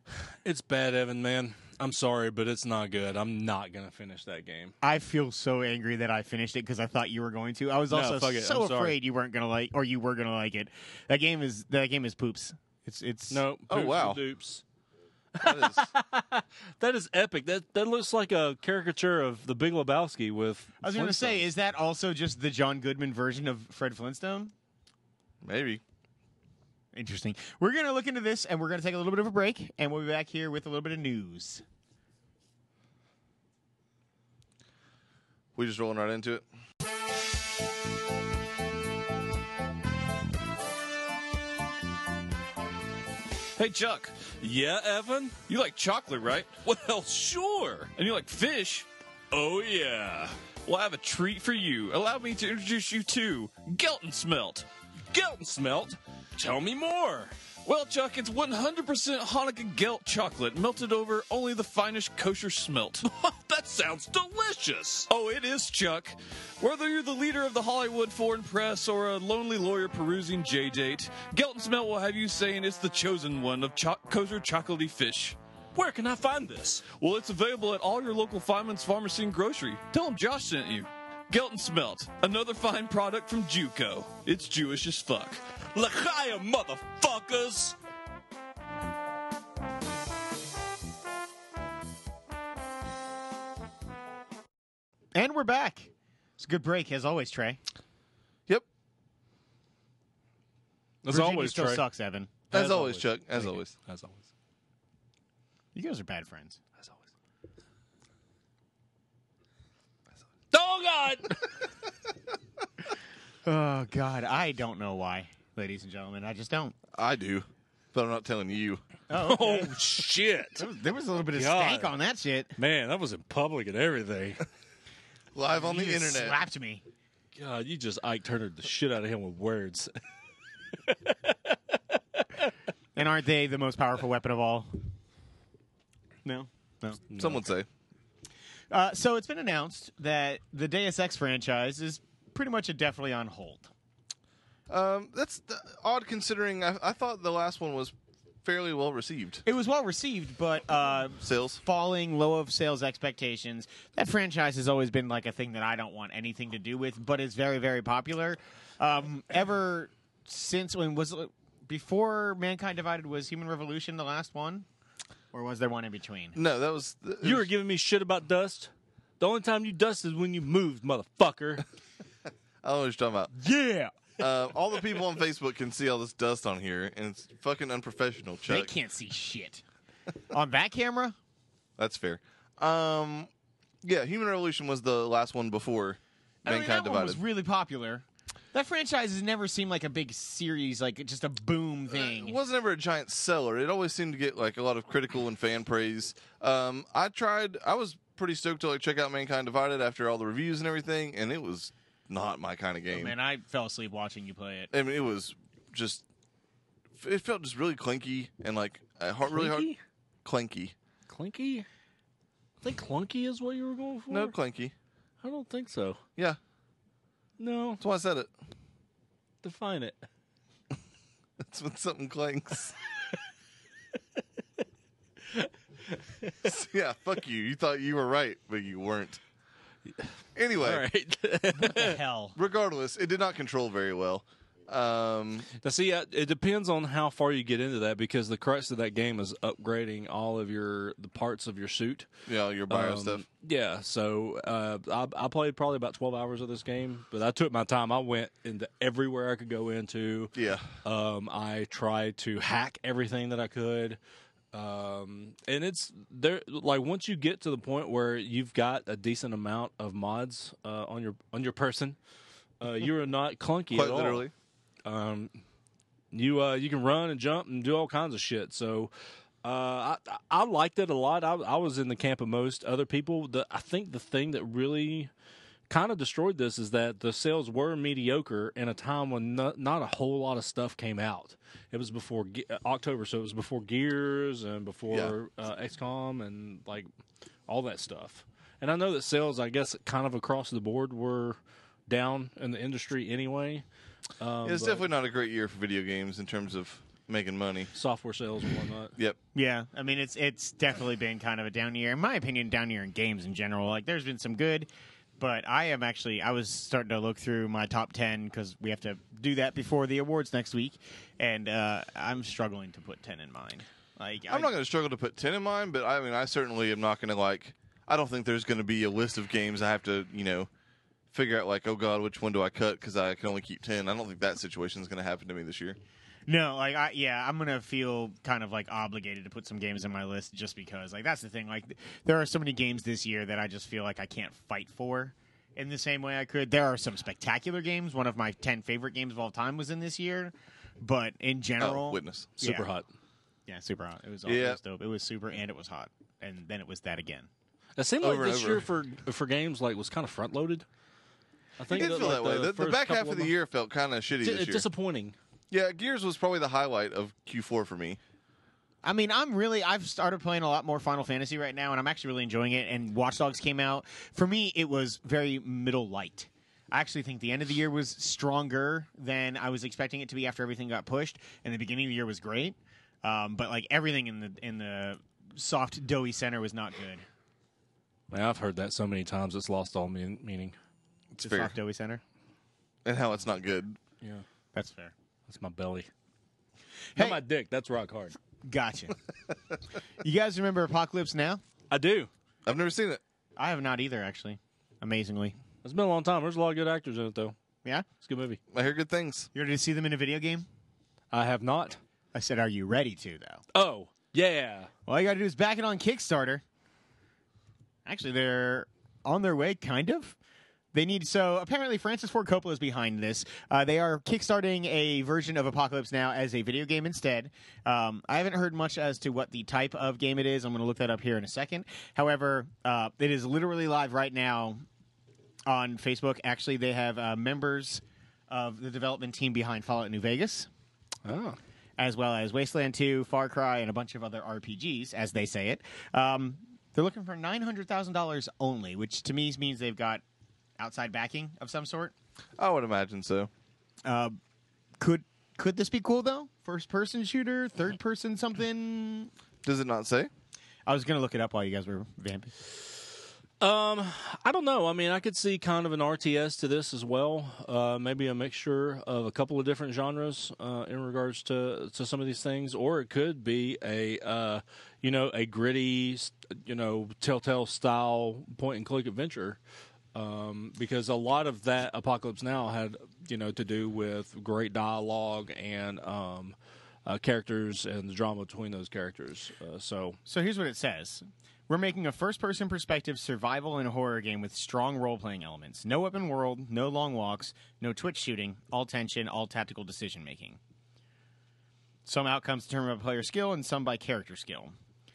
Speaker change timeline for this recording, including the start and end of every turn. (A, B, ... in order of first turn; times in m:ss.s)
0:00.4-0:04.7 A
0:04.8-0:13.4 B
0:07.9-0:08.9 A
0:13.3-0:14.6 A
0:13.7-0:14.2 C
0:15.4-0:21.5 A
0:15.4-0:15.9 C
0:20.8-0:24.5 B
0:25.4-0:25.8 C
0:26.9-0:31.6 B
0:35.5-0:36.4 C
0:43.5-0:44.2 D
0:44.4-0:45.4 A
0:45.5-0:46.5 D
0:46.6-0:47.9 A
0:48.0-0:48.9 D
0:49.3-0:50.4 A
0:50.6-0:54.7 D
0:55.1-0:57.3 A
0:57.6-1:03.0 D
1:03.0-1:05.1 A
1:05.1-1:15.4 D
1:15.8-1:16.9 A
1:16.9-1:25.4 D
1:25.7-1:27.8 A
1:35.1-1:37.6 B
1:41.0-1:41.8 A
1:41.1-1:42.4 B
1:42.5-1:43.7 C
1:42.5-1:44.3 A
1:45.8-1:46.6 B
1:50.5-1:51.6 A
1:53.4-1:56.8 B
1:56.9-1:58.8 C
1:59.1-2:00.0 B
1:59.2-2:00.6 A
2:00.6-2:02.5 B
2:01.3-2:01.9 A
2:02.6-2:04.4 A
2:05.3-2:06.4 C
2:05.5-2:06.8 B
2:07.4-2:09.9 A
2:10.8-2:12.5 A
2:13.0-2:14.7 B
2:16.2-2:17.0 B
2:17.1-2:17.4 A
2:17.2-2:17.7 C
2:18.7-2:23.7 B
2:24.7-2:29.4 C
2:29.4-2:44.6 B
2:31.2-2:31.6 C
2:45.3-2:46.4 B
2:46.4-2:47.5 C
2:47.2-2:51.6 A
2:52.6-2:53.3 C
2:53.4-2:53.9 B
2:54.2-2:58.7 C
2:58.5-2:59.6 B
3:00.3-3:01.1 B
3:01.8-3:03.3 C
3:03.8-3:07.2 C
3:06.4-3:12.4 B
3:11.9-3:23.1 C
3:22.9-3:24.7 B
3:24.7-3:26.0 C
3:27.0-3:29.7 C
3:29.3-3:29.8 A
3:30.2-3:30.8 C
3:31.1-3:31.6 A
3:32.6-3:34.3 A
3:34.1-3:34.7 C
3:35.2-3:36.0 A
3:37.4-3:37.8 A
3:37.8-3:38.3 C
3:39.4-3:40.0 A
3:41.4-3:42.8 C
3:45.3-3:46.5 A
3:46.4-3:49.2 C
3:50.0-3:52.0 A
3:50.4-3:50.8 C
3:51.6-3:52.4 B
3:52.4-3:55.5 C
3:55.6-4:02.1 A
4:02.2-4:03.2 C
4:02.7-4:14.0 A
4:10.4-4:10.7 C
4:14.5-4:22.0 A
4:22.6-4:24.3 A
4:23.7-4:24.3 C
4:24.8-4:25.4 A
4:26.1-4:28.9 A
4:29.4-4:35.1 A
4:35.7-4:46.9 A
4:47.5-4:53.6 A
4:54.2-4:54.9 A
4:54.4-4:57.7 C
4:57.7-4:58.9 A
4:59.4-5:14.5 B
5:14.3-5:20.5 C
5:21.1-5:25.8 C
5:26.3-5:42.7 B
5:41.6-5:42.3 C
5:42.4-5:42.9 A
5:43.5-5:47.3 B
5:44.2-5:44.6 C
5:47.8-5:50.6 A
5:48.0-5:48.6 C
5:51.6-5:53.3 A
5:51.7-5:54.6 C
5:54.2-5:55.2 A
5:55.5-5:58.0 C
5:58.8-6:17.0 B
6:18.1-6:20.6 A
6:21.1-6:22.0 B
6:21.2-6:21.5 C
6:22.8-6:23.8 C
6:24.5-6:24.9 B
6:25.3-6:25.9 A
6:26.9-6:27.2 B
6:27.0-6:28.1 A
6:28.4-6:29.0 B
6:30.0-6:31.4 B
6:31.7-6:32.1 A
6:32.4-6:33.0 C
6:33.4-6:35.4 B
6:35.6-6:37.4 A
6:38.0-6:38.4 A
6:38.5-6:39.3 C
6:39.4-6:40.4 B
6:41.1-6:41.8 A
6:42.1-6:43.4 B
6:43.5-6:44.7 A
6:44.9-6:46.4 B
6:47.8-6:50.2 B
6:50.7-7:04.6 B
7:05.4-7:10.5 B
7:11.0-7:11.4 A
7:11.8-7:20.0 B
7:20.6-7:21.9 B
7:22.4-7:23.3 C
7:23.8-7:24.2 B
7:24.8-7:29.1 B
7:29.4-7:30.1 C
7:30.6-7:32.3 B
7:33.4-7:49.4 A
7:49.9-8:00.0 A
8:00.1-8:10.4 B
8:11.8-8:14.5 B